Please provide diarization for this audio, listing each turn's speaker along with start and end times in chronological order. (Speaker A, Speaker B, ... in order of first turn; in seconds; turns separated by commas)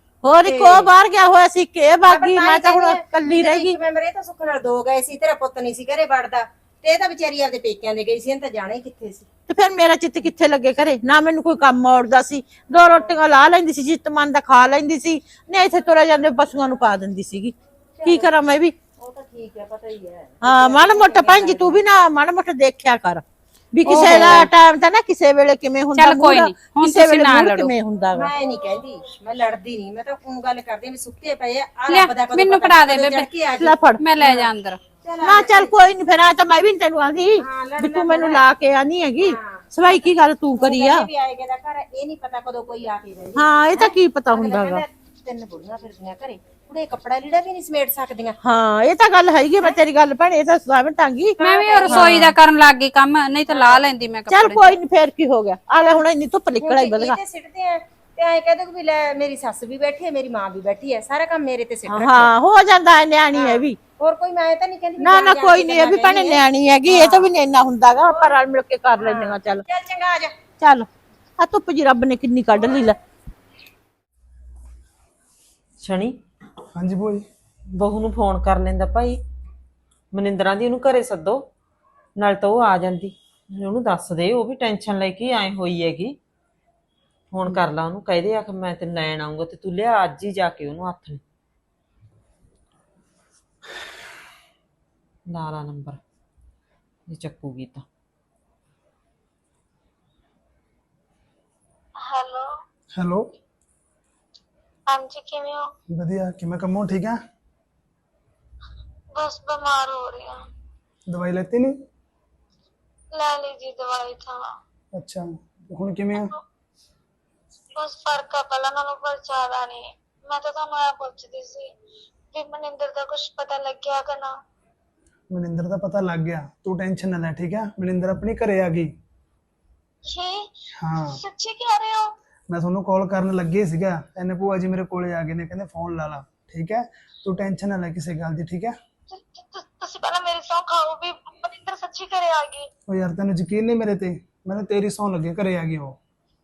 Speaker A: 0.2-3.8, Speaker B: 0.4-0.9, Speaker B: 2.1-9.3, Speaker A: 9.5-18.7, Speaker B: 18.0-18.3, Speaker B: 19.0-21.8, Speaker A: 20.4-28.3, Speaker C: 23.9-24.5, Speaker B: 23.9-24.3, Speaker C: 26.0-27.7, Speaker B: 28.1-34.5, Speaker C: 31.9-33.3, Speaker A: 33.6-34.0, Speaker C: 34.0-34.8, Speaker B: 35.0-35.7, Speaker A: 35.2-41.1, Speaker B: 37.4-38.4, Speaker B: 39.2-40.0, Speaker B: 40.6-48.4, Speaker A: 43.4-44.8, Speaker A: 48.4-52.4, Speaker B: 51.4-52.3, Speaker C: 51.4-54.7, Speaker B: 53.5-53.9, Speaker A: 54.3-57.2, Speaker B: 56.6-62.3, Speaker A: 61.9-63.8, Speaker B: 63.3-67.3, Speaker A: 65.0-69.7, Speaker B: 68.1-68.4, Speaker B: 69.0-70.4, Speaker A: 70.6-70.9, Speaker A: 71.4-73.0, Speaker D: 75.8-76.2, Speaker E: 76.8-77.2, Speaker D: 77.7-79.2, Speaker D: 80.1-81.5, Speaker D: 82.2-86.2, Speaker D: 87.3-91.2, Speaker D: 95.3-96.0, Speaker D: 97.1-97.9, Speaker F: 102.1-102.5, Speaker E: 103.0-103.3, Speaker F: 104.9-105.7, Speaker E: 105.9-107.2, Speaker F: 109.2-110.4, Speaker E: 111.1-111.8, Speaker F: 113.1-114.5, Speaker E: 115.0-116.3, Speaker F: 117.8-121.7, Speaker F: 122.3-124.3, Speaker E: 125.3-128.9, Speaker F: 130.1-130.5, Speaker E: 130.8-131.2, Speaker F: 131.1-132.1, Speaker E: 132.5-138.8, Speaker F: 139.1-142.7, Speaker E: 142.9-146.0